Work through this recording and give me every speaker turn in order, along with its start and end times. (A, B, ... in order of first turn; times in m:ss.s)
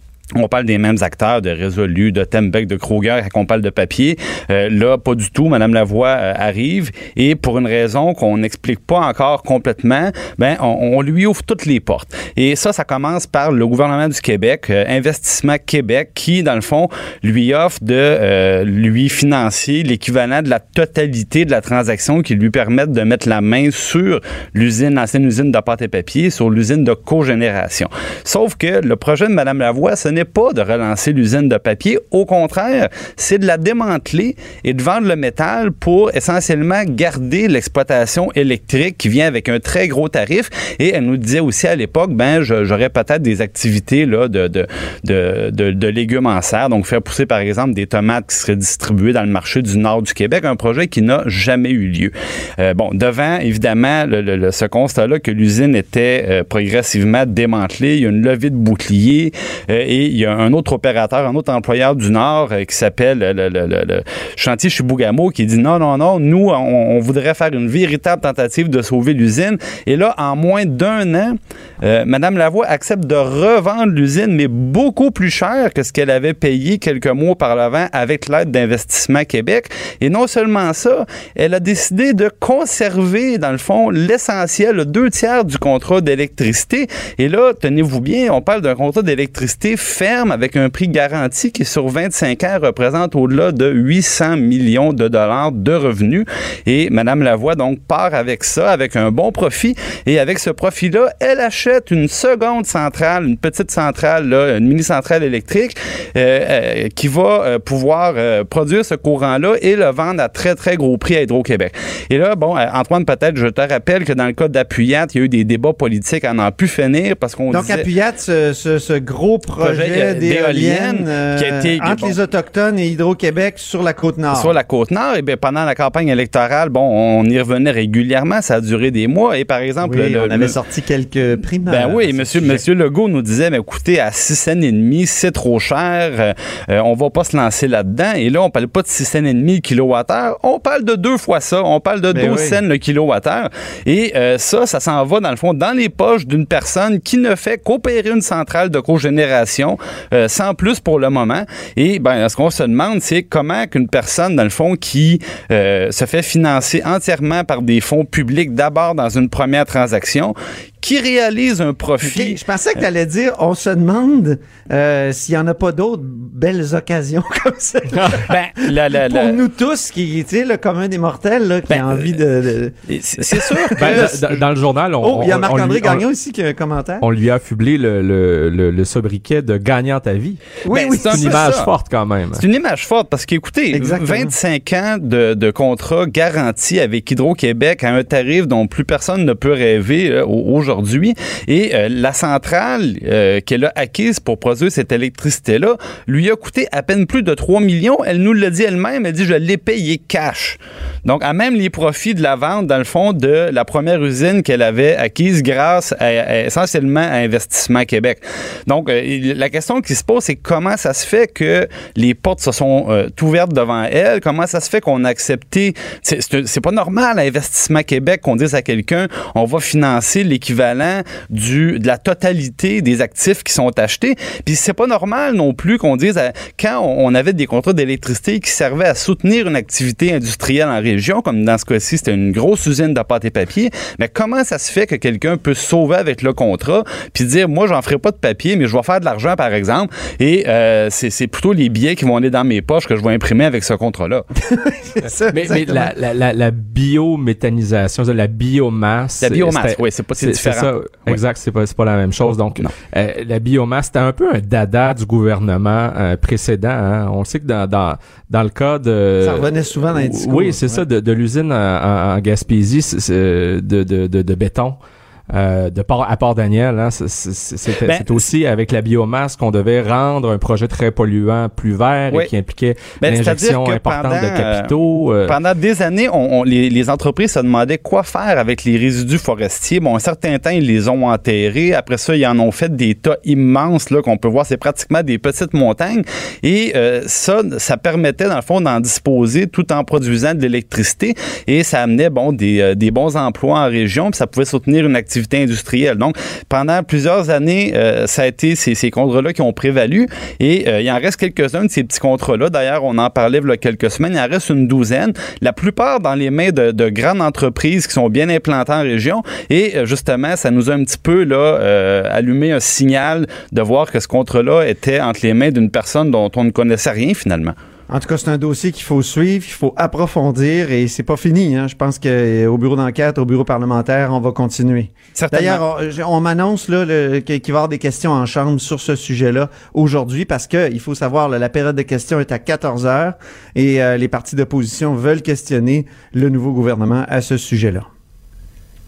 0:00.4-1:57.8 A
1:57.5-2:04.5 B
1:59.6-2:02.1 A
2:04.3-2:10.5 A
2:09.8-2:12.6 B
2:11.7-2:42.4 A
2:22.1-2:22.6 B
2:42.0-2:54.2 B
2:48.0-2:49.4 A
2:51.7-2:52.1 A
2:52.9-2:54.2 A
2:53.8-2:56.0 C
2:55.0-2:57.0 B
2:57.0-3:00.4 C
3:00.6-3:01.4 B
3:00.7-3:01.7 A
3:01.0-3:02.4 C
3:02.4-4:04.2 A
3:03.7-3:04.3 B
4:04.4-4:05.9 B
4:05.3-4:24.8 C
4:09.2-4:11.2 A
4:19.2-4:20.8 B
4:25.3-4:35.4 C
4:27.8-4:28.2 A
4:33.0-4:34.7 A
4:35.3-5:17.6 A
5:17.9-5:37.9 B
5:25.2-5:25.6 A